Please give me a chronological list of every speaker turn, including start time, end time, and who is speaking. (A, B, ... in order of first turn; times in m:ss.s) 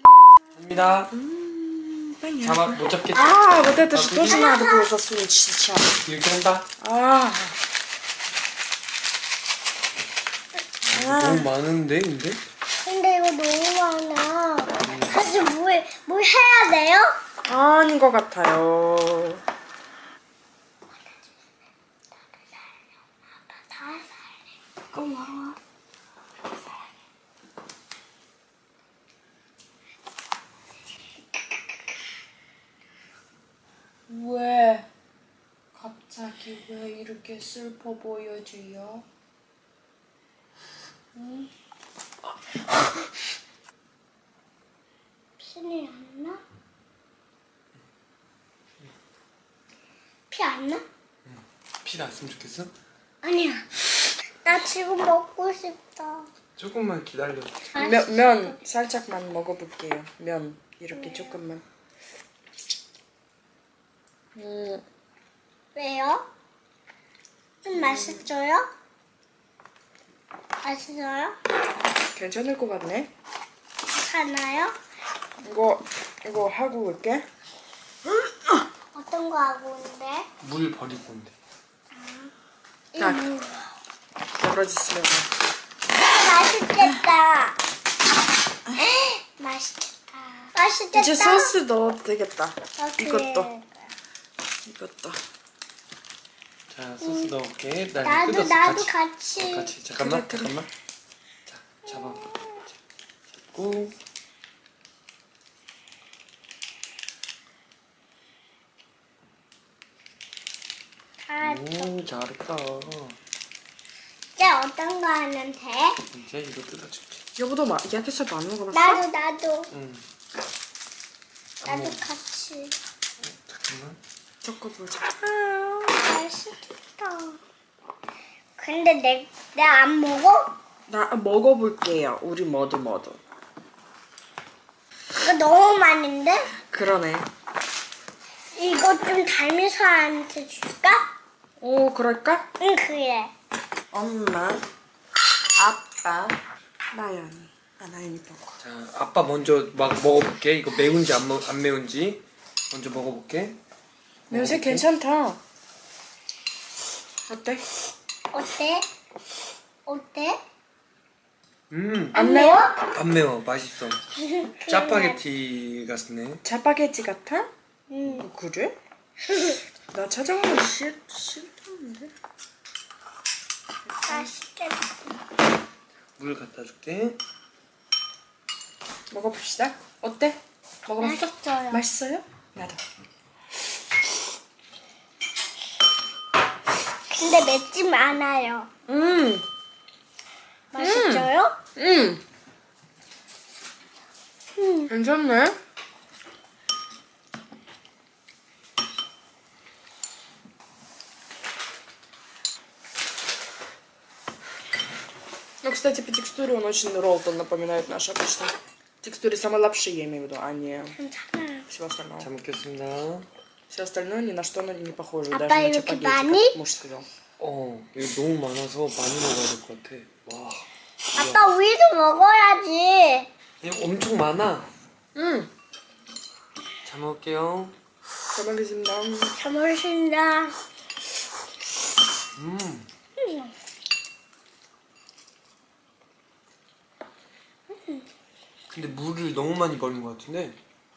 0:00.6-0:01.1 A
0:01.1-0:06.0 B
0:02.4-0:04.5 A
0:04.2-0:04.9 C
0:06.0-0:06.7 A
0:06.8-0:07.6 B
0:10.9-0:12.4 A
0:10.9-0:11.5 B
0:12.8-0:17.1 C
0:14.9-0:15.2 A
0:17.5-0:19.4 B
0:23.5-0:24.3 C
0:24.9-0:25.6 B
0:34.1-0:34.9 B
0:35.8-0:39.0 B
0:41.2-0:41.5 B
0:45.4-0:46.4 C
0:50.3-0:50.8 C
0:51.3-0:52.7 A
0:53.2-0:53.8 C
0:54.4-0:56.3 C
0:56.6-0:57.7 A
0:57.8-0:58.5 C
0:57.8-1:01.6 B
1:00.9-1:01.4 C
1:04.4-1:04.8 B
1:05.8-1:06.2 C
1:07.6-1:08.7 C
1:07.7-1:08.2 B
1:10.6-1:11.4 C
1:12.2-1:13.1 B
1:13.9-1:14.8 C
1:15.4-1:17.2 B
1:18.9-1:20.3 C
1:20.4-1:21.3 A
1:22.0-1:22.3 C
1:22.9-1:23.7 C
1:23.0-1:23.3 B
1:24.4-1:25.3 B
1:26.1-1:27.6 C
1:28.8-1:31.5 C
1:30.9-1:33.5 B
1:32.8-1:33.8 C
1:34.7-1:35.2 B
1:36.7-1:40.7 A
1:37.0-1:37.3 C
1:38.0-1:39.7 C
1:40.0-1:40.5 B
1:41.5-1:42.3 A
1:41.9-1:42.6 C
1:43.4-1:44.0 A
1:51.3-1:51.9 C
1:51.4-1:53.2 A
1:54.4-1:56.0 C
1:56.1-1:57.2 A
1:57.4-1:59.0 B
1:58.7-1:59.7 C
1:59.7-2:00.0 A
2:01.6-2:02.7 C
2:01.7-2:02.0 A
2:03.2-2:04.0 A
2:04.4-2:05.1 B
2:05.2-2:07.4 C
2:08.6-2:10.5 C
2:10.9-2:13.2 B
2:15.2-2:16.5 C
2:16.7-2:17.3 B
2:18.6-2:21.1 C
2:21.6-2:22.4 B
2:22.6-2:23.3 C
2:23.9-2:24.6 B
2:25.6-2:26.4 B
2:26.9-2:28.6 B
2:28.6-2:33.6 A
2:34.3-2:34.9 A
2:34.3-2:35.4 B
2:37.3-2:37.6 B
2:38.3-2:38.9 C
2:39.9-2:40.4 C
2:41.7-2:42.2 A
2:42.1-2:42.7 B
2:42.2-2:42.8 C
2:42.9-2:44.0 A
2:44.2-2:45.2 C
2:44.6-2:46.4 A
2:46.4-2:47.5 B
2:47.9-2:48.2 C
2:48.1-2:48.8 B
2:49.3-2:49.6 C
2:49.9-2:52.1 B
2:54.0-2:54.3 B
2:54.1-2:54.8 C
2:56.2-2:57.2 A
2:59.1-3:02.8 B
3:01.0-3:01.8 C
3:07.1-3:08.7 C
3:08.9-3:09.4 B
3:10.7-3:11.5 C
3:10.8-3:12.2 B
3:14.6-3:14.9 C
3:14.9-3:15.6 B
3:25.6-3:31.0 B
3:31.0-3:31.7 C
3:31.7-3:32.3 B
3:32.2-3:33.3 A
3:33.7-3:37.1 B
3:35.3-3:36.6 C
3:37.4-3:41.4 A
3:41.2-3:43.3 C
3:43.6-3:44.7 A
3:45.2-3:45.5 B
3:46.8-3:47.8 A
3:48.3-3:49.4 B
3:49.4-3:50.5 C
3:52.4-3:52.9 A
3:53.2-3:53.5 C
3:58.7-4:00.6 A